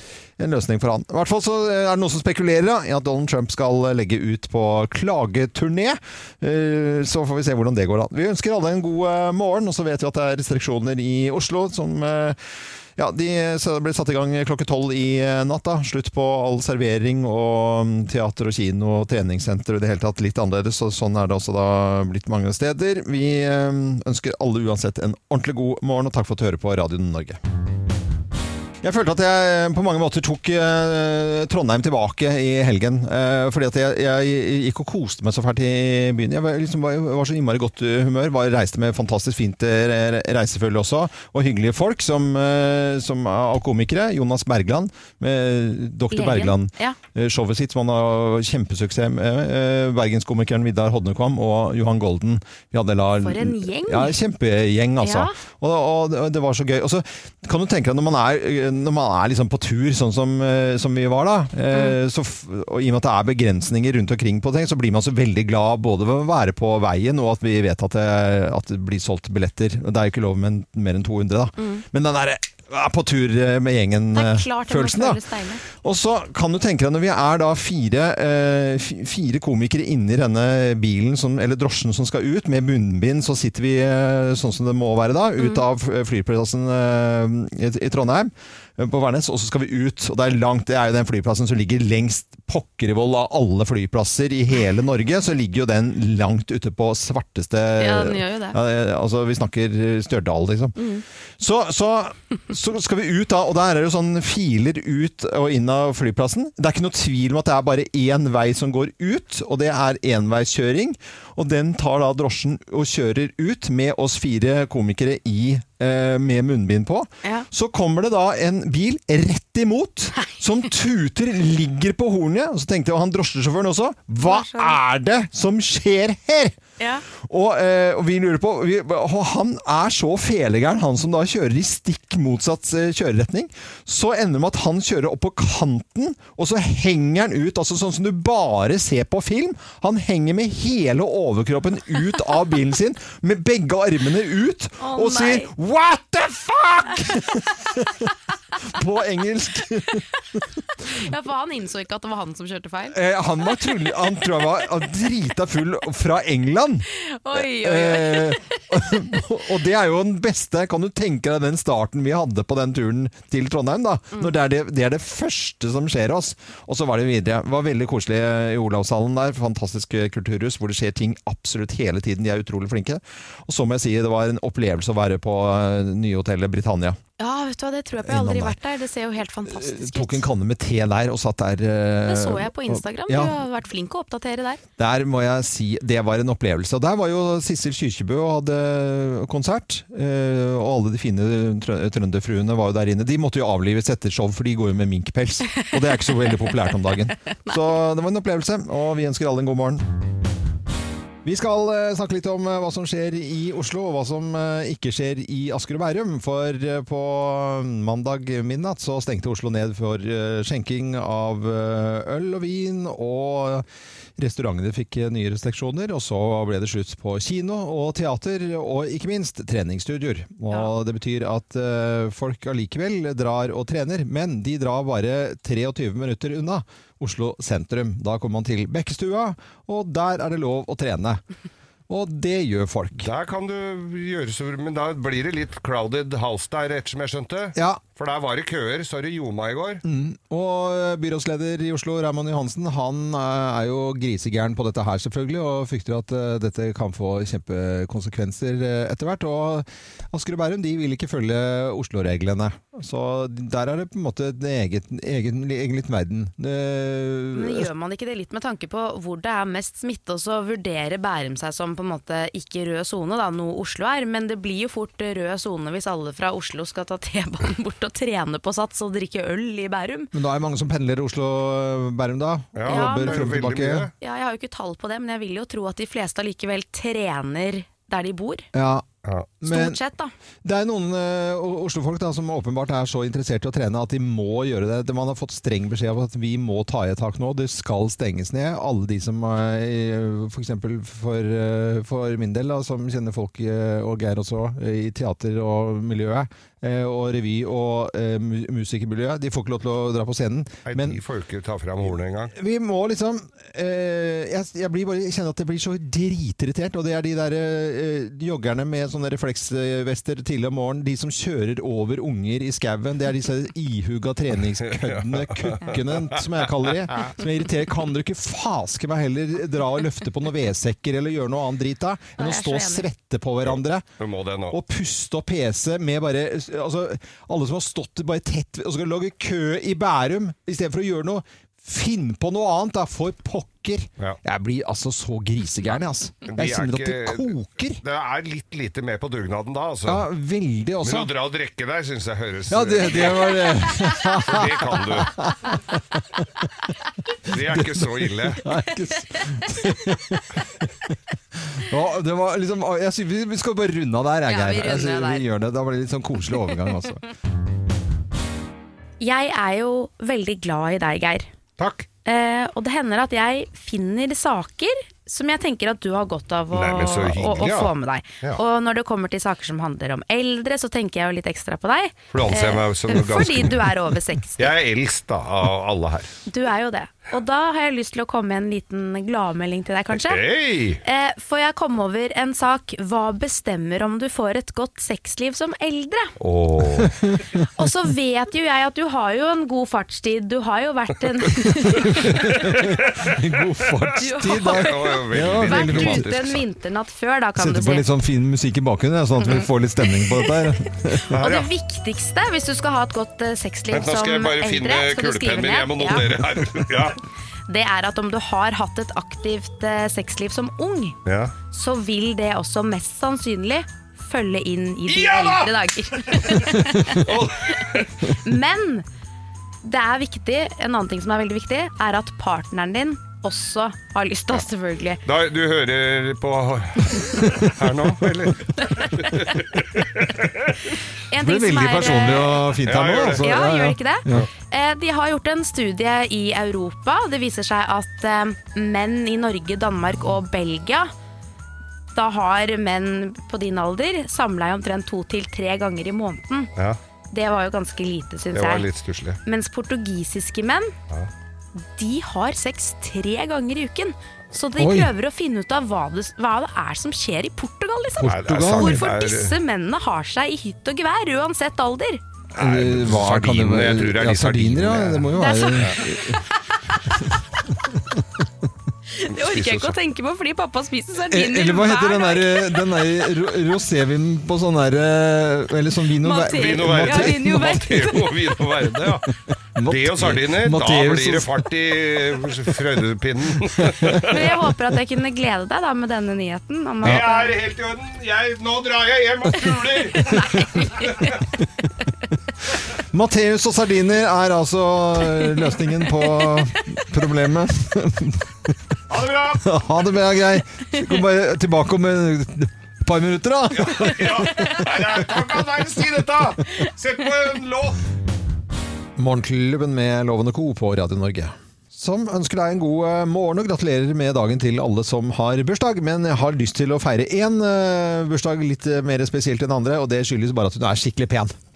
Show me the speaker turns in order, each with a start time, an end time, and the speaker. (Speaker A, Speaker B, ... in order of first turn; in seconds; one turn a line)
Speaker A: 0.4-12.4
Speaker A: 13.0-27.4
Speaker A: 28.8-100.8
Speaker B: 46.1-47.0
Speaker B: 53.2-54.2
Speaker B: 55.0-55.4
Speaker B: 71.6-71.8
Speaker B: 74.1-75.6
Speaker B: 97.8-98.6
Speaker B: 100.8-101.0
Speaker A: 101.4-126.5
Speaker B: 124.2-124.8
Speaker B: 126.8-127.0
Speaker A: 127.1-150.4
Speaker B: 144.8-145.5
Speaker B: 150.8-153.0
Speaker A: 152.9-177.0
Speaker B: 156.9-158.6
Speaker B: 177.2-180.2
Speaker A: 178.0-178.6
Speaker A: 179.5-183.4
Speaker B: 182.1-184.6
Speaker A: 184.8-199.8
Speaker A: 201.2-213.7
Speaker A: 214.2-231.2
Speaker A: 231.9-233.1
Speaker C: 233.0-239.8
Speaker A: 237.6-237.8
Speaker A: 239.8-257.7
Speaker B: 257.3-270.1
Speaker A: 270.1-273.9
Speaker C: 272.6-273.9
Speaker B: 272.7-273.3
Speaker B: 274.0-278.5
Speaker A: 278.5-278.9
Speaker A: 279.4-279.8
Speaker B: 279.4-280.1
Speaker A: 280.4-301.0
Speaker C: 300.7-302.3
Speaker A: 302.3-323.9
Speaker C: 314.9-315.7
Speaker B: 322.2-322.9
Speaker C: 324.0-324.6
Speaker A: 324.5-337.8
Speaker C: 336.3-340.1
Speaker A: 339.9-341.1
Speaker C: 340.8-345.2
Speaker A: 342.5-346.3
Speaker C: 347.3-348.4
Speaker A: 347.3-350.4
Speaker A: 351.5-357.0
Speaker B: 354.3-355.3
Speaker B: 359.0-361.3
Speaker C: 361.6-361.9
Speaker B: 362.1-374.5
Speaker C: 366.5-368.4
Speaker C: 372.1-373.7
Speaker C: 374.4-376.1
Speaker B: 376.3-380.2
Speaker C: 379.9-380.8
Speaker B: 380.8-386.1
Speaker C: 386.2-387.0
Speaker A: 386.8-387.3
Speaker B: 387.6-392.6
Speaker A: 391.7-396.1
Speaker C: 392.5-393.3
Speaker B: 393.9-397.9
Speaker C: 394.3-396.4
Speaker A: 397.4-401.1
Speaker B: 399.2-399.5
Speaker B: 400.0-400.3
Speaker B: 400.9-406.1
Speaker C: 401.1-401.5
Speaker C: 403.7-407.0
Speaker B: 407.5-411.0
Speaker C: 411.1-411.3
Speaker B: 411.5-418.9
Speaker C: 414.9-415.5
Speaker C: 416.0-417.9
Speaker B: 419.6-425.0
Speaker C: 425.1-430.6
Speaker B: 431.1-432.5
Speaker A: 431.1-434.3
Speaker C: 432.6-433.2
Speaker B: 433.2-440.9
Speaker B: 441.9-446.5
Speaker B: 447.1-448.7
Speaker C: 448.3-449.2
Speaker B: 449.2-450.7
Speaker B: 451.6-462.0
Speaker A: 454.6-454.9
Speaker A: 458.0-458.9
Speaker C: 458.0-459.4
Speaker C: 462.4-465.7
Speaker A: 462.4-466.2
Speaker B: 465.1-466.2
Speaker A: 467.7-468.0
Speaker B: 468.9-472.6
Speaker C: 469.1-469.8
Speaker A: 471.1-477.6
Speaker B: 476.0-478.1
Speaker C: 476.3-484.3
Speaker A: 479.6-481.5
Speaker A: 483.6-484.2
Speaker B: 484.1-487.3
Speaker C: 486.8-491.2
Speaker A: 492.8-498.6
Speaker C: 498.9-499.6
Speaker A: 499.4-504.9
Speaker C: 503.5-507.8
Speaker A: 509.0-521.4